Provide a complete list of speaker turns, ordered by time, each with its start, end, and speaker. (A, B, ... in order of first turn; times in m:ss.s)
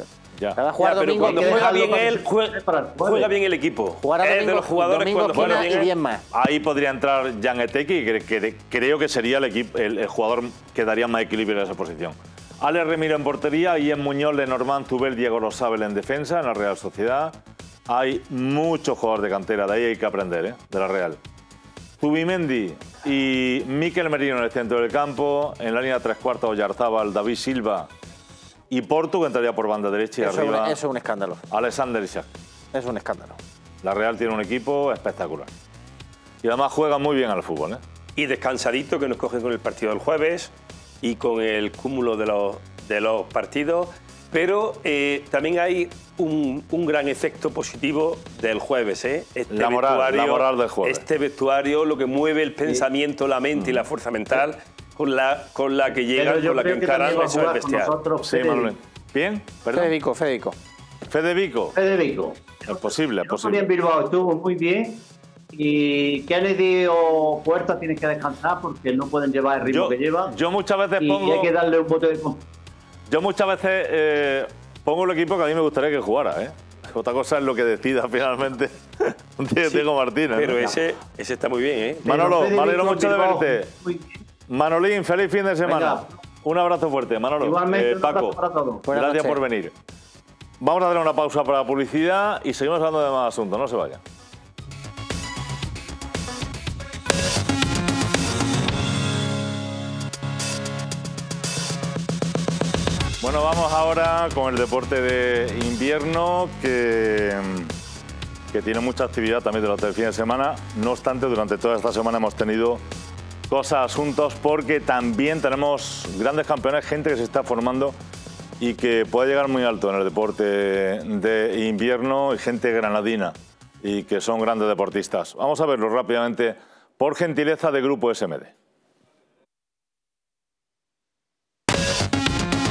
0:00.6-0:01.7 A
0:00.8-0:05.9 B
0:01.2-0:03.3 C
0:04.0-0:06.2 A
0:05.3-0:05.6 D
0:06.3-0:17.3 D
0:17.9-0:21.2 D
0:22.0-0:27.9 D
0:28.7-0:30.8 D
0:30.2-0:31.4 A
0:31.5-0:32.3 D
0:32.7-0:33.4 A
0:33.8-0:35.5 D
0:36.4-0:37.8 D
0:38.2-0:57.9 B
0:49.5-0:51.0 D
0:53.5-0:53.8 D
0:56.1-0:58.7 C
0:58.2-0:59.9 D
0:59.7-1:00.6 A
1:01.1-1:01.8 D
1:01.7-1:05.0 C
1:02.6-1:03.6 D
1:05.5-1:10.3 C
1:09.6-1:11.5 D
1:11.0-1:12.4 C
1:13.1-1:20.8 D
1:20.3-1:22.0 B
1:22.0-1:23.7 D
1:22.0-1:24.2 C
1:24.5-1:28.4 D
1:25.6-1:26.2 C
1:27.4-1:28.8 C
1:28.9-1:29.4 A
1:28.9-1:29.7 D
1:30.6-1:34.0 D
1:43.2-1:47.7 D
1:48.5-1:52.8 D
1:53.5-1:58.0 D
1:58.6-2:08.5 D